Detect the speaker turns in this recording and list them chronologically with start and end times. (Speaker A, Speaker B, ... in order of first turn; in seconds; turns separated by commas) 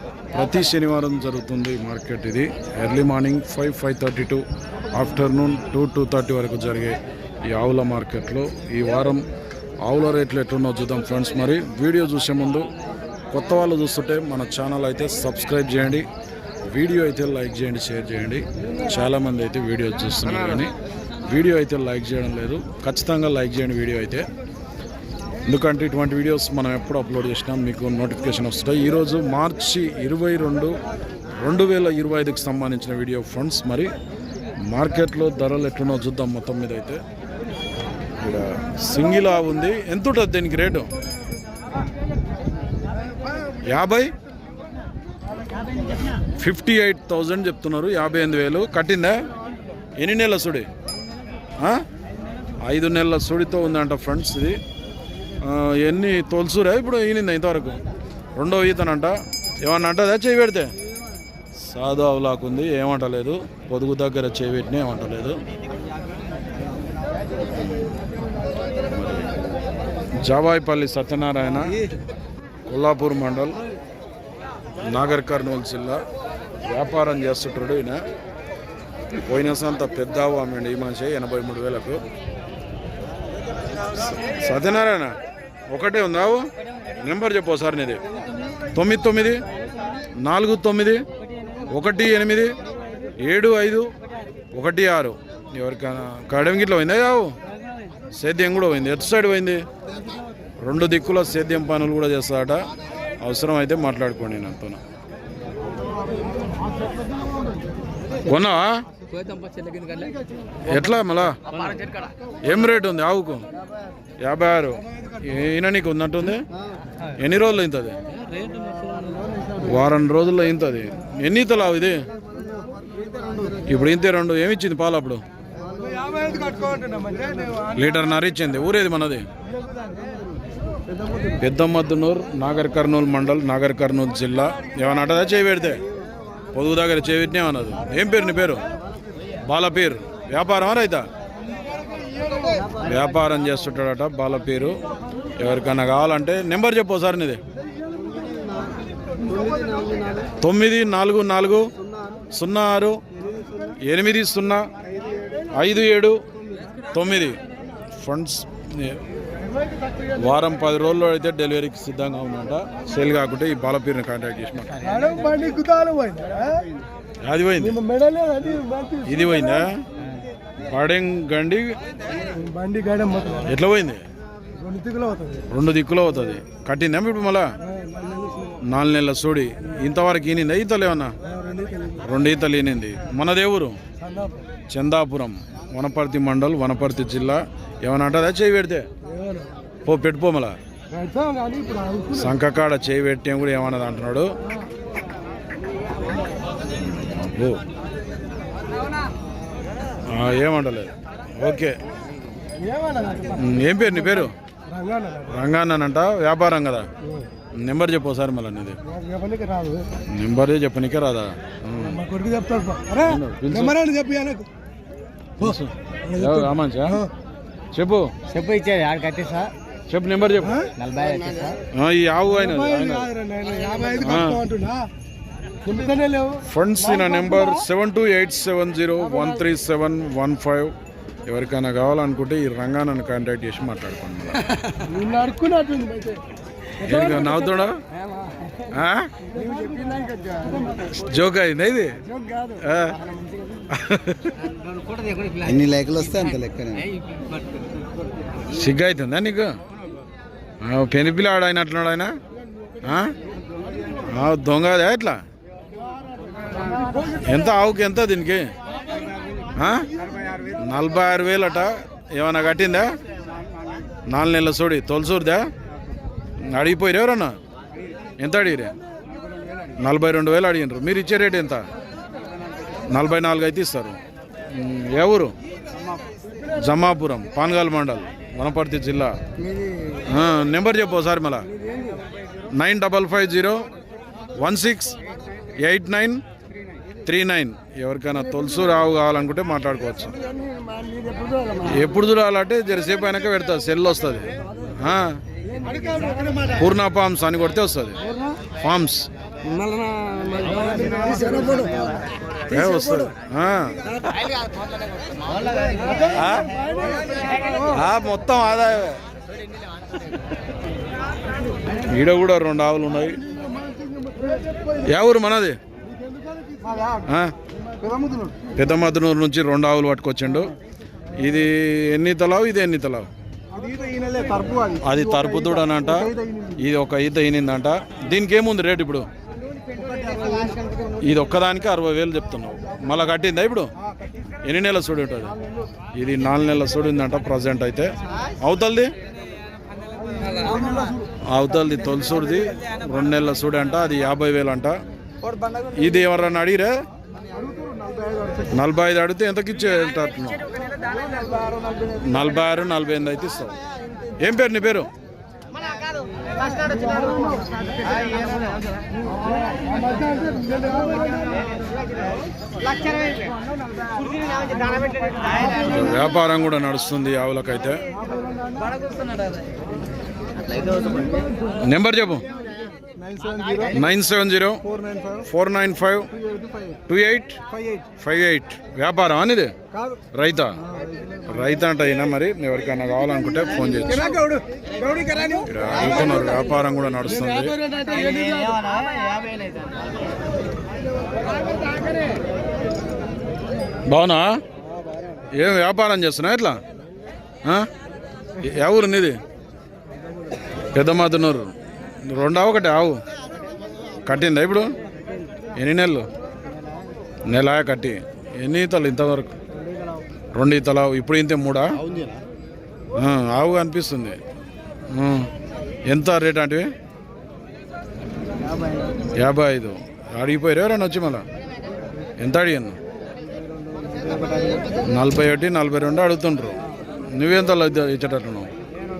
Speaker A: 0.3-9.3, Speaker A: 9.8-12.7, Speaker A: 13.3-16.1, Speaker A: 16.6-20.7, Speaker A: 21.3-24.3, Speaker A: 25.4-30.8, Speaker A: 31.4-33.9, Speaker A: 34.7-37.0, Speaker A: 38.2-40.9, Speaker A: 43.6-44.1, Speaker A: 46.4-49.2, Speaker A: 50.0-50.7, Speaker A: 52.6-54.6, Speaker A: 55.4-57.8, Speaker A: 58.4-60.7, Speaker A: 61.6-65.4, Speaker A: 68.9-69.3, Speaker A: 70.2-71.7, Speaker A: 72.7-73.6, Speaker A: 74.8-76.0, Speaker A: 76.7-78.0, Speaker A: 79.2-82.0, Speaker A: 83.9-85.2, Speaker A: 85.7-88.0, Speaker A: 88.7-89.4, Speaker A: 90.2-91.0, Speaker A: 91.7-92.6, Speaker A: 93.2-93.9, Speaker A: 94.5-97.3, Speaker A: 98.1-99.6, Speaker A: 100.6-102.7, Speaker A: 103.2-104.8, Speaker A: 108.2-108.8, Speaker B: 109.1-110.1, Speaker A: 110.6-111.4, Speaker B: 111.5-111.8, Speaker A: 112.4-113.5, Speaker A: 114.2-116.5, Speaker A: 117.1-118.0, Speaker A: 119.6-122.0, Speaker A: 123.6-125.2, Speaker C: 125.8-127.7, Speaker A: 127.7-129.3, Speaker A: 131.4-135.8, Speaker A: 136.5-138.6, Speaker A: 139.4-141.1, Speaker C: 142.1-142.6, Speaker A: 142.8-144.8, Speaker A: 145.4-147.4, Speaker A: 150.4-151.7, Speaker A: 152.3-153.0, Speaker A: 153.8-154.7, Speaker A: 155.5-156.2, Speaker A: 156.9-157.4, Speaker A: 157.9-159.0, Speaker A: 160.1-164.9, Speaker C: 164.8-166.7, Speaker A: 167.2-167.8, Speaker C: 167.6-169.7, Speaker A: 169.0-169.9, Speaker A: 170.7-171.8, Speaker C: 172.3-173.5, Speaker A: 173.4-174.0, Speaker C: 174.5-175.4, Speaker A: 175.5-177.5, Speaker C: 177.7-178.6, Speaker A: 178.6-181.2, Speaker C: 181.3-182.0, Speaker A: 182.0-183.8, Speaker C: 184.0-184.4, Speaker A: 184.7-188.9, Speaker C: 189.0-189.5, Speaker A: 189.8-190.6, Speaker C: 190.9-192.2, Speaker A: 192.1-194.3, Speaker A: 196.8-197.6, Speaker A: 200.1-201.8, Speaker C: 202.6-203.5, Speaker A: 203.3-204.3, Speaker C: 204.7-205.3, Speaker A: 205.2-206.9, Speaker A: 207.5-208.8, Speaker C: 208.9-209.9, Speaker A: 210.1-212.0, Speaker C: 211.8-214.5, Speaker A: 213.0-213.8, Speaker A: 215.4-217.1, Speaker C: 216.1-217.0, Speaker A: 217.7-218.1, Speaker B: 218.3-219.5, Speaker A: 219.9-220.7, Speaker B: 220.8-221.6, Speaker A: 221.7-223.1, Speaker C: 222.4-224.9, Speaker A: 224.0-224.4, Speaker C: 225.6-227.6, Speaker A: 226.4-230.7, Speaker A: 231.3-234.4, Speaker C: 234.8-236.2, Speaker A: 236.8-237.8, Speaker C: 236.8-237.4, Speaker C: 238.1-238.6, Speaker A: 238.7-239.1, Speaker C: 239.3-240.9, Speaker A: 240.8-242.0, Speaker C: 242.1-243.7, Speaker A: 242.6-243.0, Speaker A: 243.7-244.4, Speaker B: 244.4-247.4, Speaker A: 248.5-249.5, Speaker A: 250.6-252.1, Speaker A: 252.8-253.2, Speaker A: 254.0-255.2, Speaker A: 257.2-258.5, Speaker A: 259.5-259.9, Speaker A: 260.5-263.0, Speaker A: 264.1-265.5, Speaker A: 266.4-267.4, Speaker A: 268.2-268.7, Speaker A: 269.8-271.6, Speaker A: 272.9-274.0, Speaker A: 274.5-275.3, Speaker A: 276.5-279.2, Speaker A: 280.0-281.5, Speaker A: 282.5-283.6, Speaker A: 284.4-285.0, Speaker A: 285.6-286.2, Speaker A: 287.0-290.2, Speaker C: 290.4-291.8, Speaker A: 291.6-295.2, Speaker C: 295.5-296.4, Speaker A: 296.5-298.0, Speaker A: 298.5-299.1, Speaker C: 299.4-301.9, Speaker B: 300.7-301.9, Speaker A: 302.4-304.2, Speaker C: 302.6-303.0, Speaker B: 305.4-305.7, Speaker C: 305.8-307.7, Speaker A: 306.0-306.5, Speaker A: 307.6-309.0, Speaker A: 311.7-313.2, Speaker C: 313.4-314.8, Speaker A: 314.8-315.6, Speaker C: 316.1-317.0, Speaker A: 317.1-317.3, Speaker C: 317.7-318.5, Speaker A: 318.5-320.5, Speaker A: 321.1-323.1, Speaker C: 323.5-326.6, Speaker A: 324.8-329.1, Speaker C: 329.9-330.5, Speaker A: 331.0-333.7, Speaker A: 334.4-335.3, Speaker A: 335.9-338.9, Speaker C: 340.1-341.0, Speaker A: 341.3-344.8, Speaker B: 345.3-345.6, Speaker A: 345.7-346.8, Speaker C: 347.5-348.5, Speaker A: 348.5-350.4, Speaker C: 351.1-351.5, Speaker A: 352.0-353.6, Speaker A: 354.2-354.9, Speaker B: 356.4-358.6, Speaker C: 356.6-357.6, Speaker C: 359.1-361.4, Speaker B: 362.9-363.3, Speaker B: 364.2-364.6, Speaker C: 364.7-365.7, Speaker A: 365.5-367.8, Speaker C: 368.0-368.8, Speaker B: 370.4-371.2, Speaker A: 371.6-372.2, Speaker C: 373.0-373.7, Speaker A: 373.7-374.6, Speaker C: 374.7-375.2, Speaker A: 375.2-376.1, Speaker A: 376.9-377.4, Speaker C: 377.5-377.8, Speaker A: 378.0-379.5, Speaker A: 380.1-380.6, Speaker A: 381.2-384.2, Speaker C: 384.0-385.4, Speaker A: 385.4-387.6, Speaker C: 387.2-388.8, Speaker B: 388.1-389.8, Speaker A: 393.9-394.4, Speaker A: 395.3-396.6, Speaker A: 397.4-397.7, Speaker A: 398.4-399.2, Speaker A: 400.7-403.0, Speaker A: 404.0-404.7, Speaker A: 405.6-406.1, Speaker A: 407.3-409.3, Speaker A: 410.3-411.8, Speaker A: 412.9-414.2, Speaker A: 414.9-415.3, Speaker A: 415.9-416.7, Speaker A: 419.1-421.2, Speaker A: 422.2-422.8, Speaker B: 423.7-424.6, Speaker A: 424.8-428.5